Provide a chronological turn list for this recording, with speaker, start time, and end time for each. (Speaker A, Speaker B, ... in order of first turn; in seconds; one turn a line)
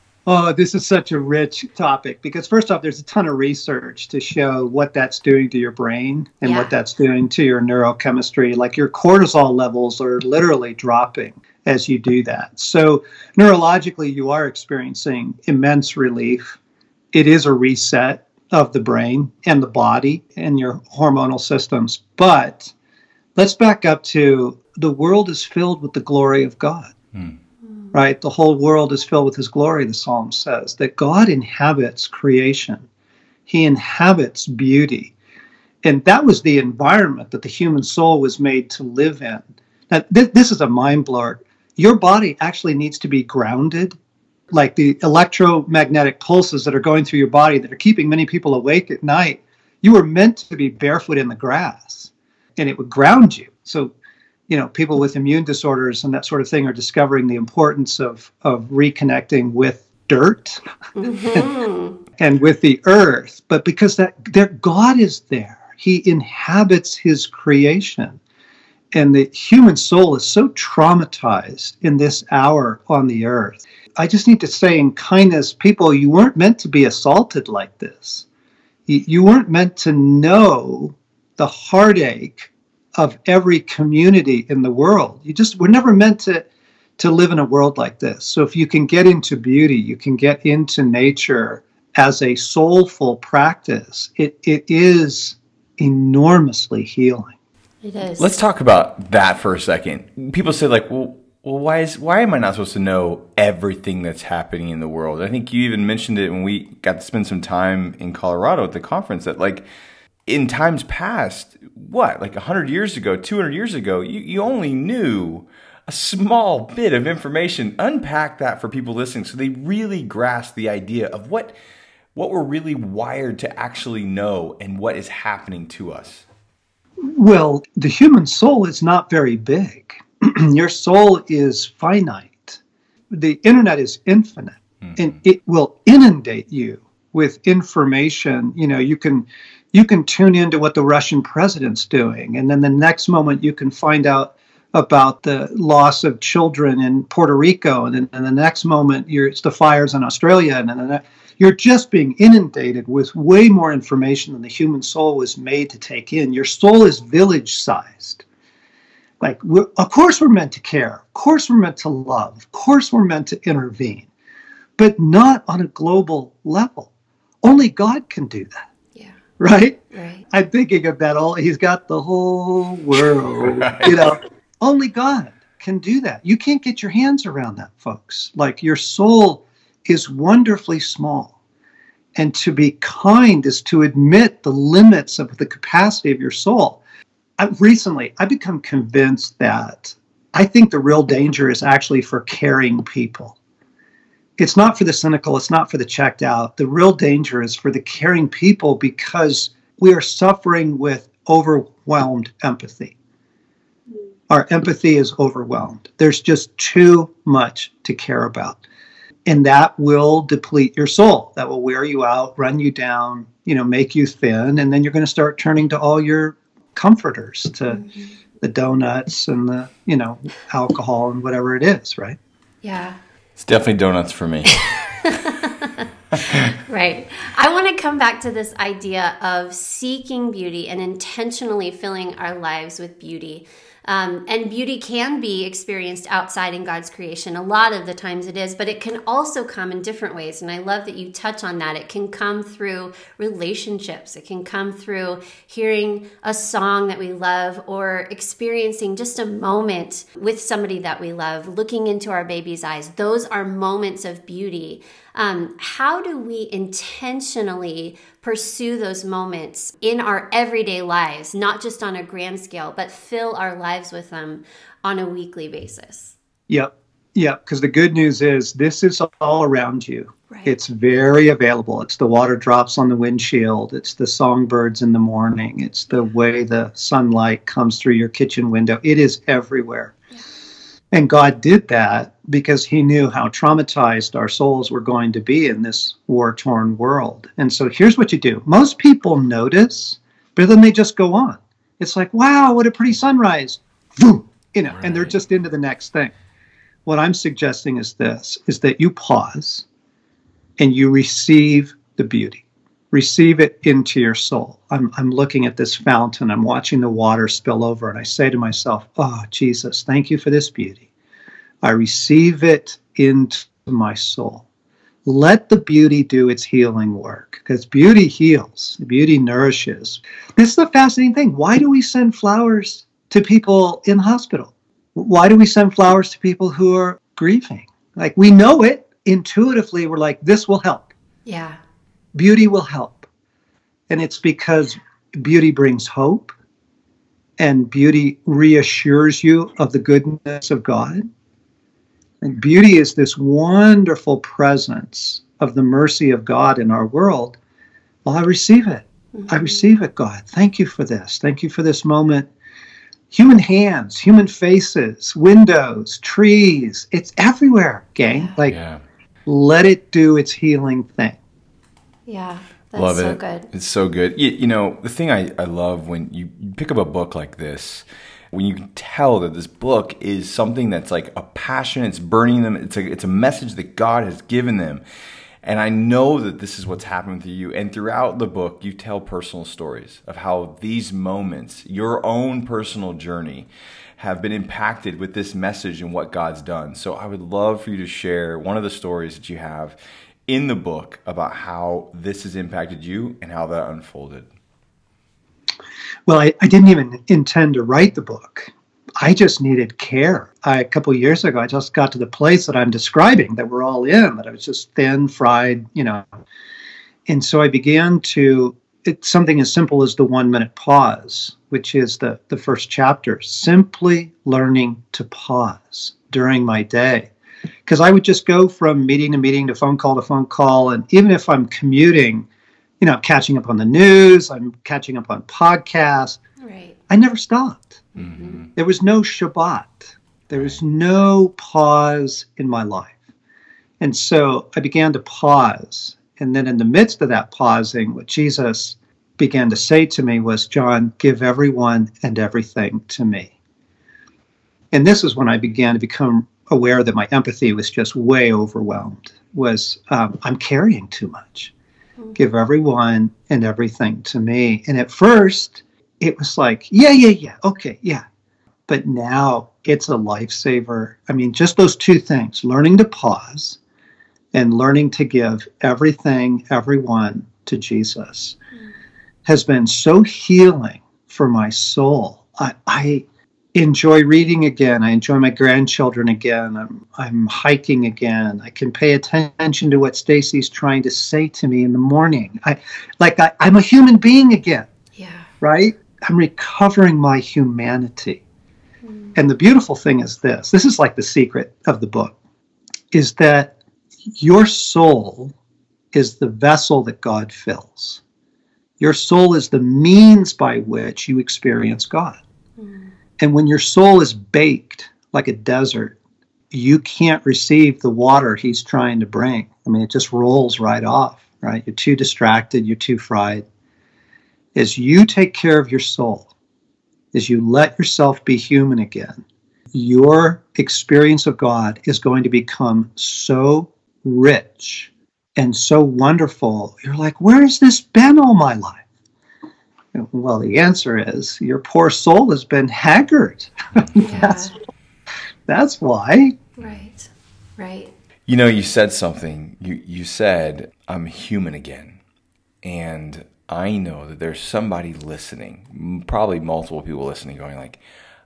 Speaker A: 0.3-16.6
Speaker B: 6.4-6.7
Speaker A: 17.1-22.7
Speaker A: 23.4-26.9
Speaker A: 27.9-32.9
Speaker A: 33.5-35.1
Speaker A: 35.8-44.0
Speaker A: 44.5-53.9
Speaker A: 54.5-60.6
Speaker B: 61.0-62.0
Speaker A: 61.2-61.6
Speaker A: 62.2-68.2
Speaker A: 68.9-78.3
Speaker A: 78.9-97.3
Speaker B: 97.8-98.3
Speaker C: 98.2-109.7
Speaker C: 110.3-121.5
Speaker C: 122.2-126.2
Speaker A: 127.0-132.6
Speaker A: 133.1-158.2
Speaker A: 159.2-164.1
Speaker A: 164.8-166.9
Speaker A: 167.4-168.6
Speaker A: 169.4-169.8
Speaker B: 169.9-170.2
Speaker A: 170.3-181.3
Speaker C: 173.3-174.1
Speaker A: 182.2-186.8
Speaker A: 187.4-193.4
Speaker A: 194.4-202.9
Speaker A: 204.3-208.6
Speaker A: 209.3-217.8
Speaker B: 217.7-218.1
Speaker A: 218.4-222.2
Speaker B: 222.6-223.0
Speaker C: 223.4-224.7
Speaker B: 224.9-266.1
Speaker A: 266.5-279.9
Speaker A: 280.9-296.1
Speaker C: 294.8-295.1
Speaker A: 296.9-299.7
Speaker A: 300.6-310.9
Speaker A: 311.6-314.4
Speaker A: 315.1-330.9
Speaker B: 331.2-331.6
Speaker A: 332.1-333.1
Speaker A: 333.9-336.3
Speaker A: 337.4-341.1
Speaker A: 342.2-347.4
Speaker A: 348.1-352.3
Speaker B: 349.1-349.7
Speaker A: 353.1-358.6
Speaker B: 358.1-358.4
Speaker C: 358.4-358.8
Speaker A: 359.3-361.2
Speaker B: 362.1-363.5
Speaker C: 362.8-374.8
Speaker C: 375.4-389.8
Speaker C: 390.3-394.3
Speaker A: 396.1-406.1
Speaker A: 407.1-417.1
Speaker A: 417.7-422.3
Speaker A: 422.8-426.2
Speaker B: 426.4-426.8
Speaker A: 426.9-427.9
Speaker B: 427.9-428.4
Speaker C: 428.0-428.5
Speaker A: 428.6-433.0
Speaker A: 433.8-443.3
Speaker A: 444.7-451.5
Speaker A: 452.1-458.0
Speaker A: 458.7-463.6
Speaker A: 464.3-468.4
Speaker A: 469.3-484.7
Speaker B: 485.0-485.3
Speaker A: 485.4-488.2
Speaker B: 488.9-489.1
Speaker A: 489.1-492.1
Speaker A: 492.9-493.6
Speaker A: 494.1-495.3
Speaker A: 495.9-498.0
Speaker A: 498.8-502.2
Speaker B: 502.6-502.9
Speaker A: 503.2-506.0
Speaker A: 506.5-513.5
Speaker A: 514.5-516.3
Speaker A: 517.1-528.8
Speaker A: 529.9-534.5
Speaker B: 534.0-534.5
Speaker A: 535.5-536.4
Speaker B: 536.6-537.9
Speaker C: 538.3-542.0
Speaker C: 542.6-547.8